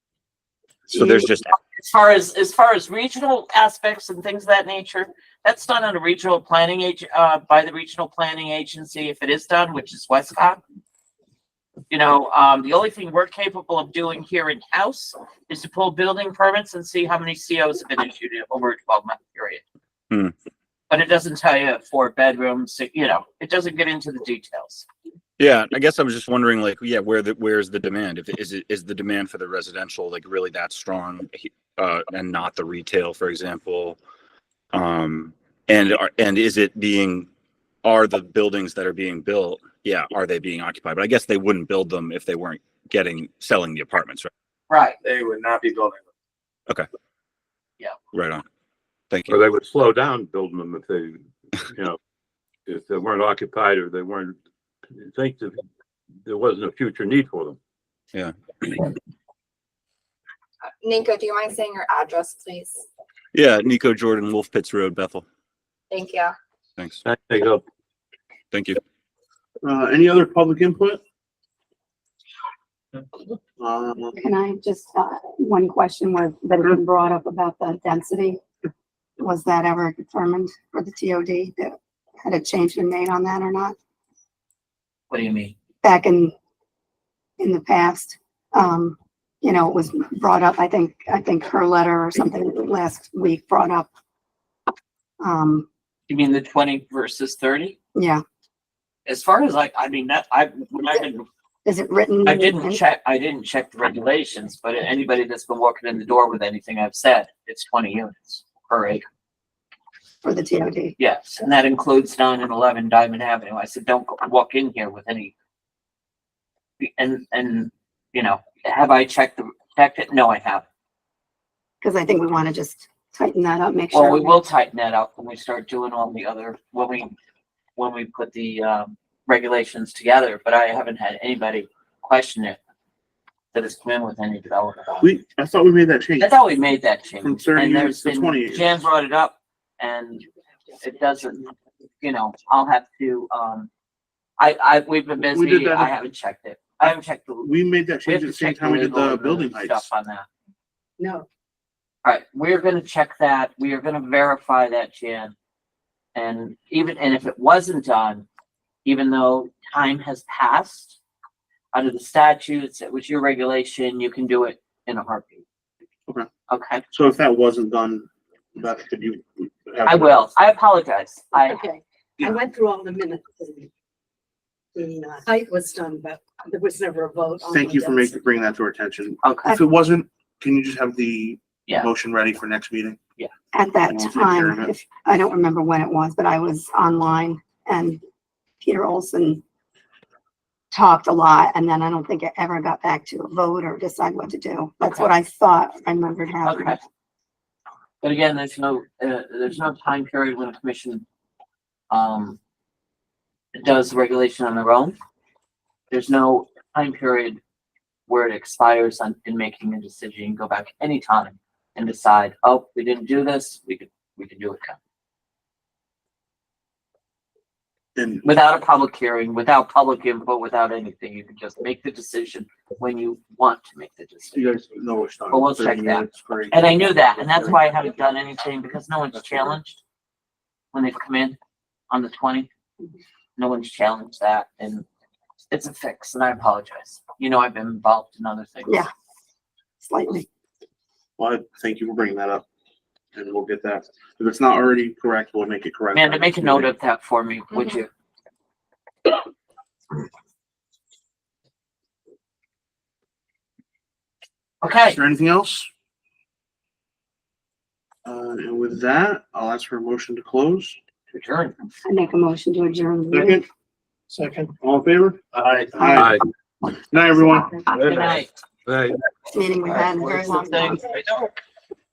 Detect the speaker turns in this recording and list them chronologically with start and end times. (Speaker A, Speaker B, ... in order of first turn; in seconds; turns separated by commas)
Speaker A: 0.9-1.4, Speaker B: 1.8-10.6, Speaker B: 11.9-19.6, Speaker B: 20.9-24.9, Speaker A: 25.4-34.0, Speaker A: 34.7-37.3, Speaker A: 37.8-44.3, Speaker B: 44.7-45.0, Speaker A: 48.1-48.5, Speaker A: 49.1-49.4, Speaker C: 49.3-52.0, Speaker C: 52.7-54.4, Speaker C: 55.0-55.6, Speaker C: 56.2-57.6, Speaker A: 58.1-58.9, Speaker D: 60.8-62.9, Speaker A: 63.3-65.2, Speaker D: 65.9-66.3, Speaker C: 67.0-67.6, Speaker A: 68.5-68.8, Speaker E: 69.6-71.0, Speaker E: 73.6-74.2, Speaker F: 74.2-78.4, Speaker F: 79.2-83.8, Speaker B: 85.1-85.5, Speaker F: 85.8-86.3, Speaker F: 87.4-93.9, Speaker F: 95.2-95.7, Speaker B: 96.1-97.8, Speaker F: 98.0-98.2, Speaker B: 99.1-101.3, Speaker F: 101.7-102.8, Speaker B: 102.3-109.0, Speaker F: 110.2-111.0, Speaker B: 111.0-115.3, Speaker B: 116.8-120.7, Speaker F: 121.8-124.4, Speaker B: 123.9-127.1, Speaker B: 127.8-132.6, Speaker B: 133.5-135.1, Speaker E: 135.0-136.3, Speaker B: 136.2-140.2, Speaker E: 137.2-138.8, Speaker B: 140.8-143.7, Speaker B: 144.4-147.5, Speaker E: 145.2-146.0, Speaker E: 146.8-149.8, Speaker B: 148.1-150.3, Speaker G: 151.0-151.2, Speaker B: 152.0-155.3, Speaker B: 156.2-158.3, Speaker B: 158.8-161.0, Speaker B: 161.7-165.4, Speaker B: 166.5-166.8, Speaker E: 166.9-170.2, Speaker B: 169.8-171.6, Speaker G: 171.3-173.7, Speaker G: 174.8-178.2, Speaker E: 177.5-183.0, Speaker B: 179.2-179.6, Speaker F: 183.5-188.0, Speaker E: 183.9-184.7, Speaker F: 188.6-189.4, Speaker F: 190.7-196.8, Speaker B: 196.4-196.8, Speaker B: 198.0-201.0, Speaker B: 201.9-202.4, Speaker B: 203.5-205.0, Speaker B: 205.9-207.4, Speaker B: 208.1-214.8, Speaker E: 218.0-218.2, Speaker B: 218.2-224.4, Speaker E: 224.3-227.6, Speaker B: 225.3-229.8, Speaker B: 230.7-231.4, Speaker B: 231.9-232.5, Speaker B: 233.4-234.9, Speaker B: 235.5-238.8, Speaker F: 239.8-240.3, Speaker E: 241.2-242.5, Speaker E: 243.2-246.7, Speaker B: 245.9-247.9, Speaker B: 254.6-255.0, Speaker E: 254.9-255.7, Speaker E: 258.1-260.8, Speaker B: 261.1-261.6, Speaker F: 261.9-263.4, Speaker E: 263.1-263.4, Speaker E: 264.6-265.2, Speaker E: 265.7-266.2, Speaker C: 265.8-266.2, Speaker E: 266.9-267.6, Speaker C: 267.7-269.0, Speaker B: 267.8-268.4, Speaker F: 269.3-270.9, Speaker B: 269.7-271.4